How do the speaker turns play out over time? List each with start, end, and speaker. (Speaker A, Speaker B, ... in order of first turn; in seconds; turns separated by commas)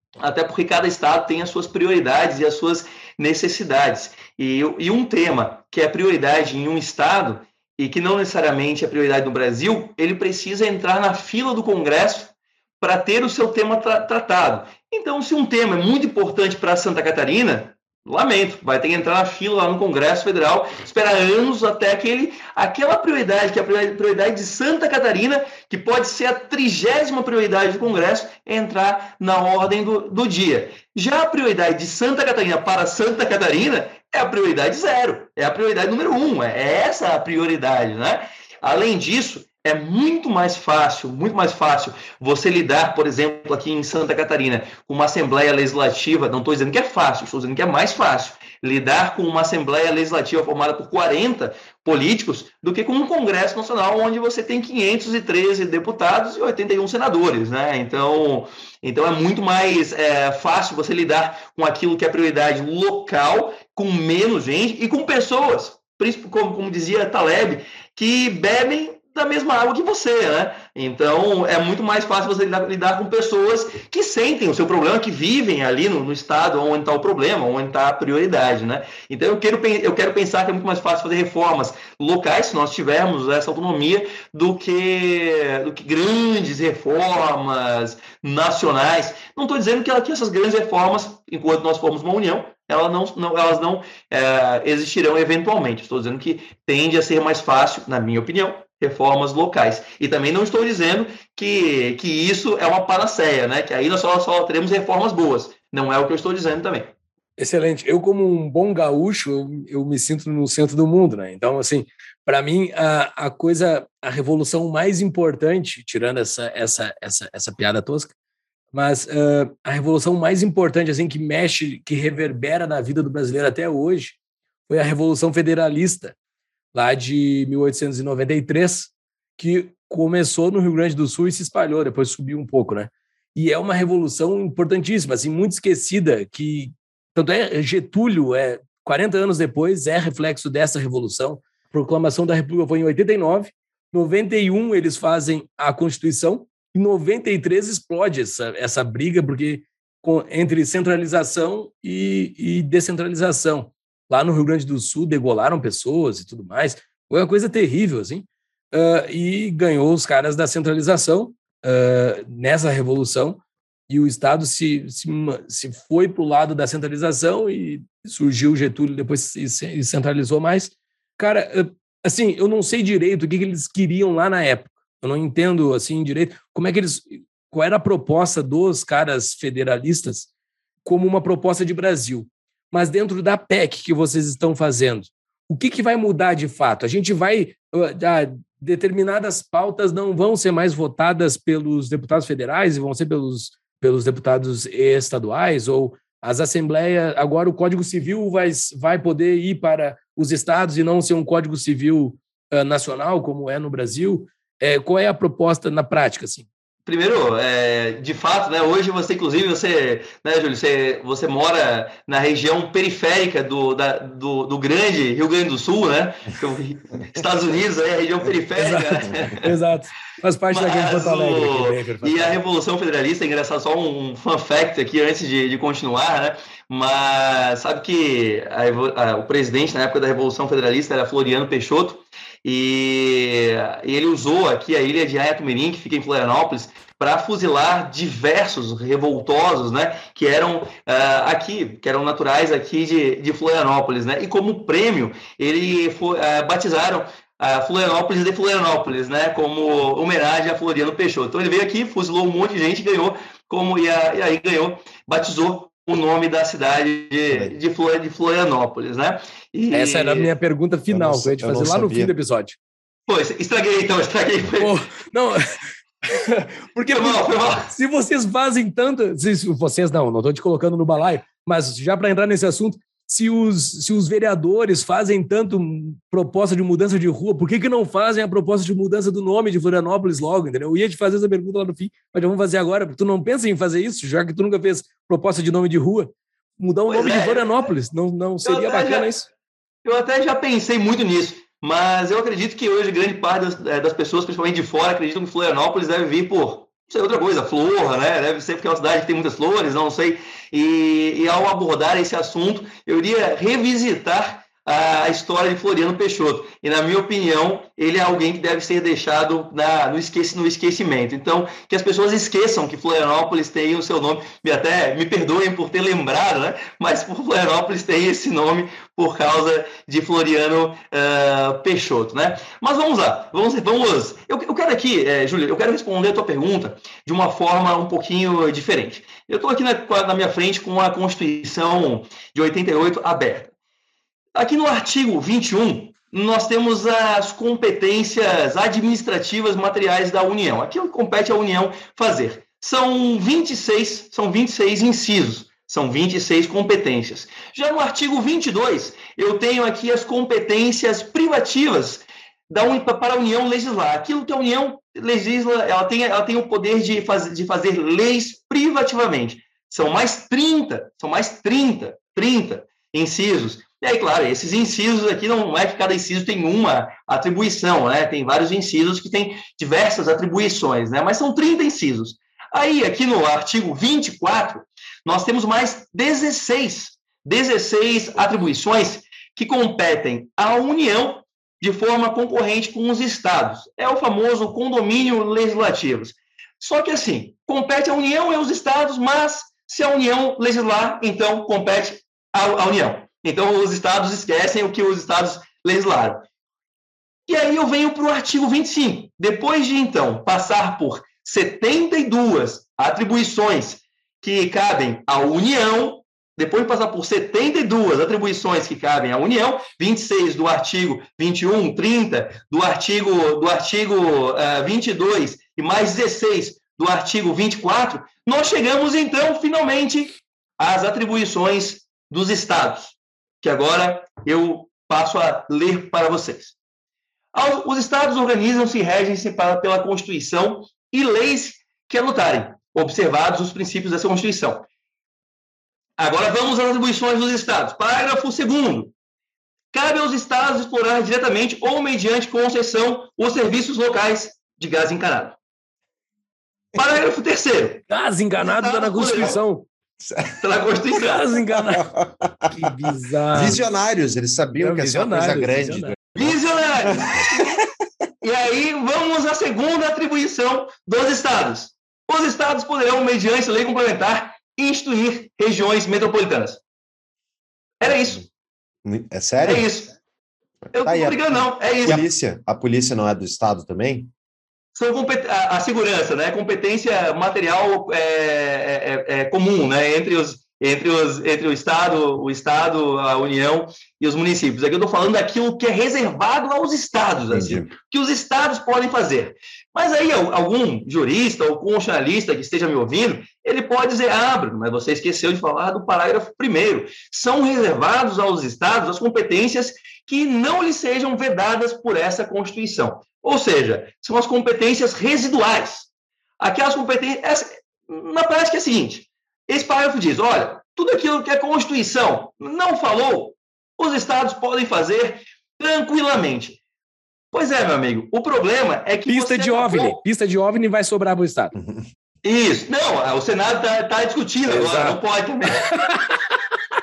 Speaker A: 0.2-106.9, Speaker B: 107.4-118.1, Speaker B: 118.7-124.2, Speaker B: 124.7-126.2, Speaker B: 126.7-180.3, Speaker B: 180.8-206.5, Speaker A: 206.9-219.5, Speaker B: 218.6-222.4, Speaker A: 220.5-260.4, Speaker B: 259.7-262.6, Speaker C: 260.9-262.1, Speaker A: 263.1-264.8, Speaker B: 264.6-289.3, Speaker A: 266.9-267.7, Speaker A: 286.9-287.7, Speaker A: 288.4-289.1, Speaker A: 289.9-333.5, Speaker A: 334.4-396.2, Speaker A: 397.3-426.6, Speaker A: 427.3-434.7, Speaker A: 436.0-438.9, Speaker A: 439.7-445.4, Speaker A: 446.8-447.9, Speaker B: 447.9-449.7, Speaker A: 448.5-449.4, Speaker C: 450.0-450.4, Speaker A: 450.4-451.3, Speaker B: 451.0-451.9, Speaker C: 451.6-452.5, Speaker B: 452.5-453.6, Speaker C: 453.3-457.6, Speaker B: 454.6-455.9, Speaker A: 456.2-457.6, Speaker A: 458.2-466.6, Speaker A: 467.8-468.2, Speaker C: 468.8-469.7, Speaker A: 469.4-469.9, Speaker A: 470.7-472.1, Speaker C: 470.8-474.1, Speaker A: 474.8-505.9, Speaker C: 487.3-487.7, Speaker A: 506.4-516.6, Speaker A: 517.3-520.0, Speaker B: 519.1-521.5, Speaker C: 521.5-521.9, Speaker A: 522.2-525.6, Speaker B: 524.5-525.0, Speaker B: 525.5-526.2